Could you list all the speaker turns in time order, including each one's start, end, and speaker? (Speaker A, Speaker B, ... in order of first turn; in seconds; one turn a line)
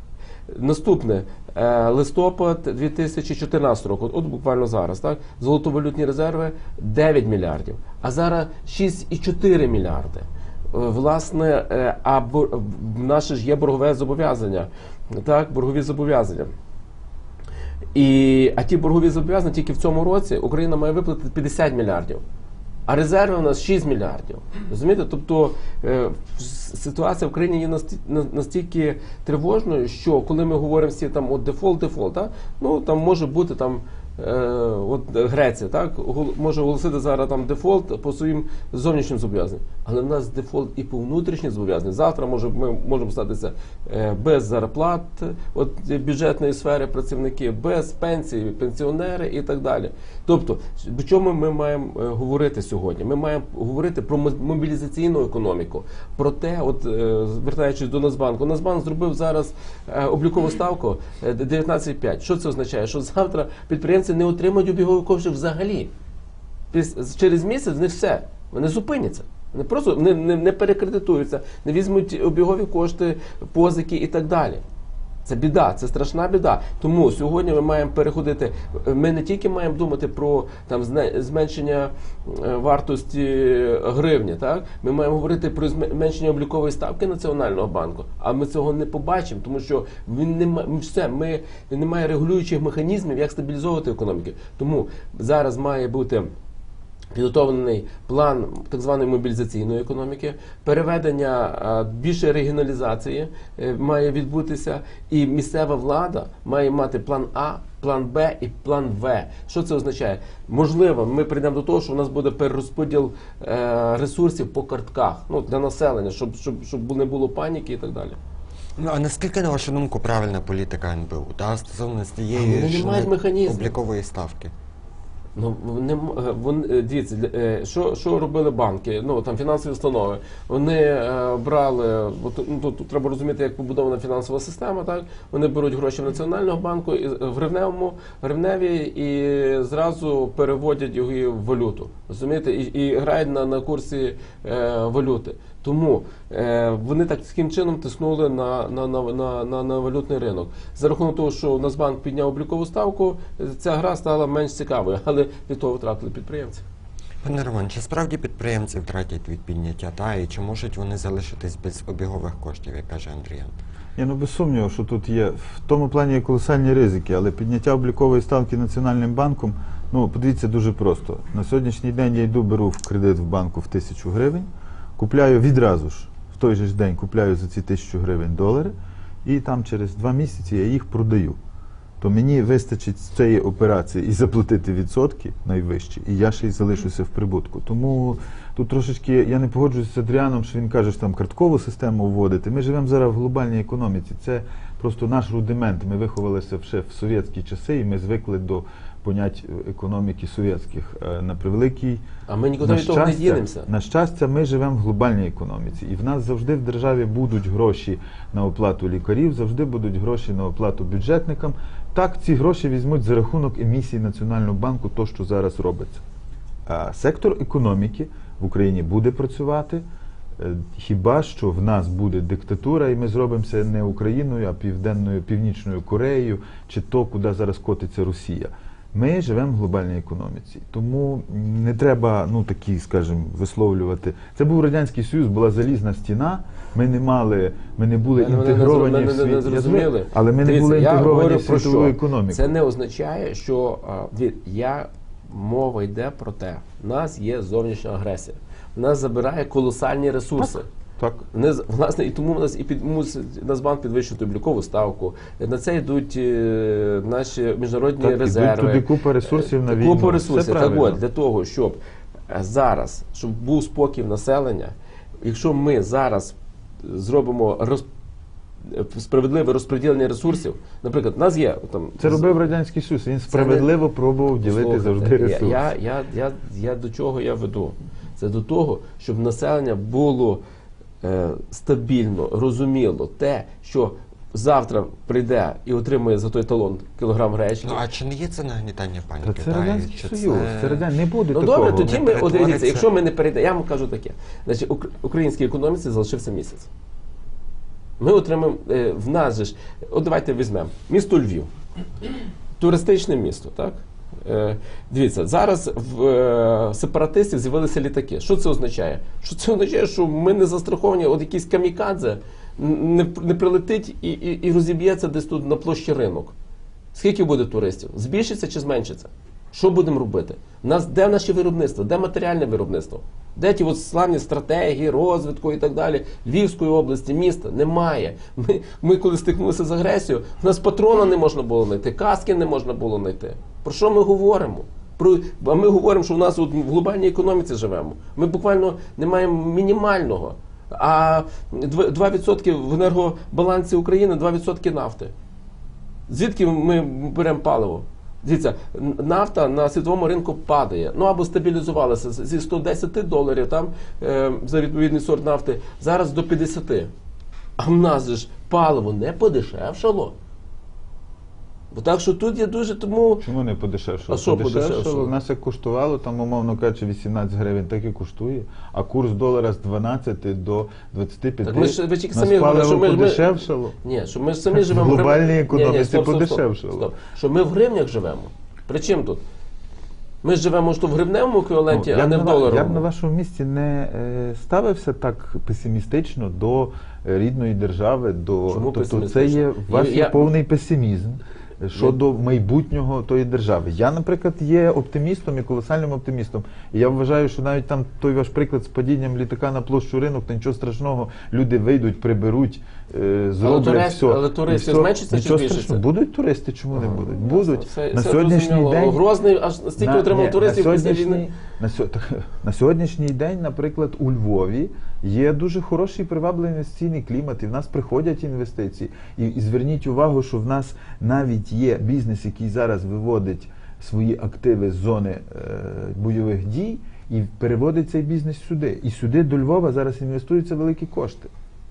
Speaker A: 0.5-16.5
Speaker A: 17.9-22.2
Speaker A: 22.9-65.9
Speaker A: 66.7-74.6
Speaker A: 75.2-96.3
Speaker A: 97.1-118.2
Speaker B: 118.8-124.5
Speaker A: 122.3-123.8
Speaker A: 125.4-156.6
Speaker B: 157.2-163.5
Speaker C: 164.0-181.4
Speaker C: 182.0-202.0
Speaker A: 202.3-203.7
Speaker C: 202.6-216.0
Speaker C: 216.7-219.8
Speaker C: 220.4-242.5
Speaker A: 238.2-250.7
Speaker C: 250.4-251.2
Speaker A: 251.3-261.8
Speaker C: 258.0-261.0
Speaker A: 262.3-267.9
Speaker A: 268.6-272.4
Speaker C: 272.0-275.7
Speaker A: 273.3-273.7
Speaker A: 274.4-280.4
Speaker A: 281.0-287.8
Speaker B: 287.6-290.9
Speaker C: 289.2-291.9
Speaker A: 291.3-296.7
Speaker B: 291.6-292.9
Speaker A: 298.0-301.5
Speaker A: 302.6-316.3
Speaker A: 316.9-345.1
Speaker A: 346.1-356.9
Speaker A: 357.6-360.2
Speaker A: 361.7-363.3
Speaker C: 363.2-373.8
Speaker A: 364.1-365.1
Speaker A: 371.4-379.2
Speaker C: 374.5-376.9
Speaker A: 380.2-382.9
Speaker C: 381.7-409.0
Speaker A: 388.5-390.3
Speaker A: 391.7-392.0
Speaker A: 403.4-405.8
Speaker A: 406.8-411.2
Speaker C: 409.8-431.3